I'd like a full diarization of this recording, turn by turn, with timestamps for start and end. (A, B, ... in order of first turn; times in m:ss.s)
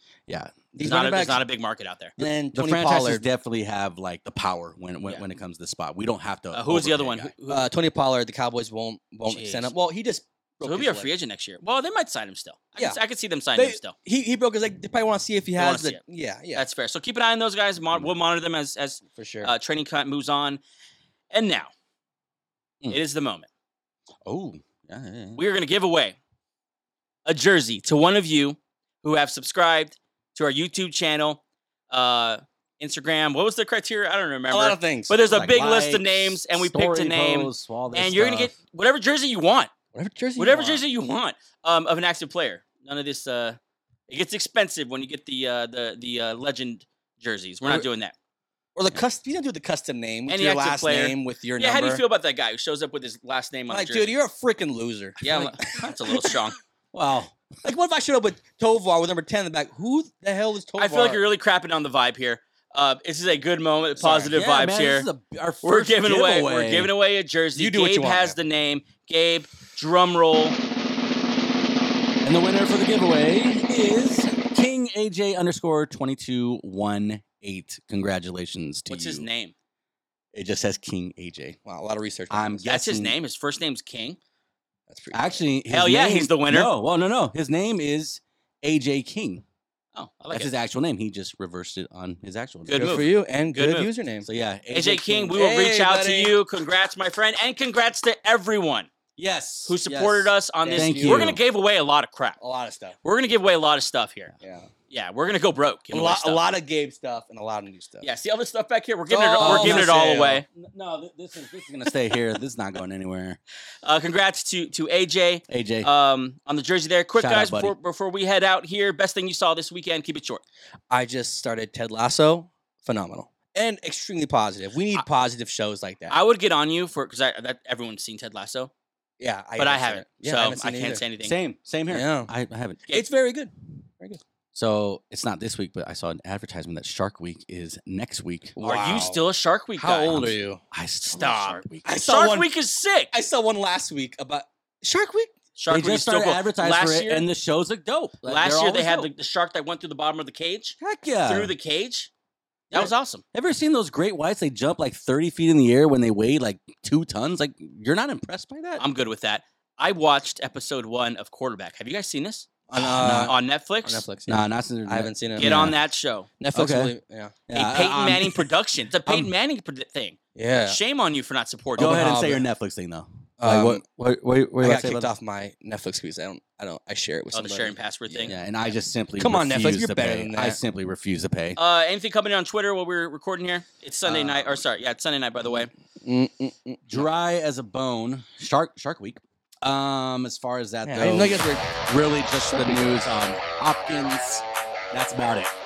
0:00.3-0:00.6 A
0:00.7-0:01.4 B
0:00.8-0:02.1 C
0:02.2-0:03.3 B
0:02.2-0:07.3 A
0:06.5-0:07.7 C
0:07.5-0:11.1 B
0:09.3-0:09.7 C
0:10.6-0:14.0 C
0:13.6-0:16.6 B
0:15.6-0:16.0 C
0:16.6-0:20.6 C
0:19.2-0:19.5 B
0:21.3-0:21.7 C
0:22.9-0:23.5 C
0:24.3-0:25.4 A
0:25.4-0:26.2 C
0:27.3-0:39.7 C
0:34.5-0:35.2 B
0:35.3-0:38.5 A
0:39.9-0:40.8 B
0:40.4-0:48.2 C
0:48.8-0:52.0 B
0:50.3-0:54.1 C
0:53.7-0:56.4 B
0:55.2-0:56.6 C
0:55.3-0:55.5 A
0:56.9-0:57.4 A
0:57.6-1:01.2 B
1:00.8-1:05.1 C
1:04.0-1:06.9 A
1:04.0-1:04.3 B
1:05.6-1:10.6 C
1:07.6-1:08.4 B
1:12.2-1:19.3 A
1:18.9-1:19.5 C
1:20.3-1:21.6 A
1:21.7-1:22.6 B
1:22.3-1:23.2 A
1:22.7-1:24.2 C
1:24.9-1:25.4 B
1:25.1-1:29.4 A
1:25.7-1:26.7 C
1:29.9-1:30.5 C
1:30.3-1:32.9 A
1:32.7-1:33.9 C
1:32.7-1:34.3 B
1:34.2-1:35.3 A
1:34.7-1:38.9 C
1:35.3-1:36.4 B
1:39.2-1:39.8 A
1:39.6-1:42.4 C
1:39.8-1:41.4 B
1:40.7-1:41.4 A
1:42.4-1:43.0 B
1:43.0-1:44.3 C
1:44.4-1:44.7 B
1:44.9-1:46.4 C
1:45.9-1:48.1 B
1:48.0-1:50.5 C
1:49.1-1:50.4 B
1:49.4-1:53.4 A
1:53.8-2:00.4 C
1:55.5-1:55.9 A
1:57.2-1:57.7 A
2:00.9-2:06.2 B
2:06.1-2:08.7 C
2:09.2-2:11.0 B
2:09.6-2:11.4 C
2:11.2-2:12.8 A
2:11.9-2:12.3 B
2:12.9-2:14.2 B
2:14.5-2:18.6 A
2:18.6-2:19.2 B
2:18.6-2:20.3 C
2:19.8-2:20.6 B
2:20.1-2:21.9 A
2:21.1-2:23.1 C
2:21.8-2:22.5 B
2:23.1-2:25.3 B
2:25.6-2:27.3 C
2:25.7-2:29.1 A
2:28.2-2:32.1 C
2:30.8-2:31.5 A
2:32.7-2:33.2 C
2:33.3-2:38.8 A
2:38.8-2:42.5 C
2:42.7-2:45.5 B
2:42.7-2:43.3 A
2:43.1-2:44.0 C
2:44.3-2:45.8 A
2:45.4-2:46.3 C
2:46.4-2:47.4 B
2:46.5-2:46.9 A
2:47.5-2:48.4 A
2:47.5-2:52.2 C
2:50.4-2:50.8 B
2:51.8-2:55.1 A
2:51.8-2:52.4 B
2:53.4-2:53.8 B
2:54.6-2:58.3 B
2:57.3-2:58.4 C
2:58.3-3:01.6 A
2:59.2-3:00.6 B
3:01.6-3:05.7 C
3:04.1-3:04.6 B
3:06.0-3:07.0 B
3:06.9-3:15.5 A
3:10.8-3:11.6 B
3:12.5-3:13.0 B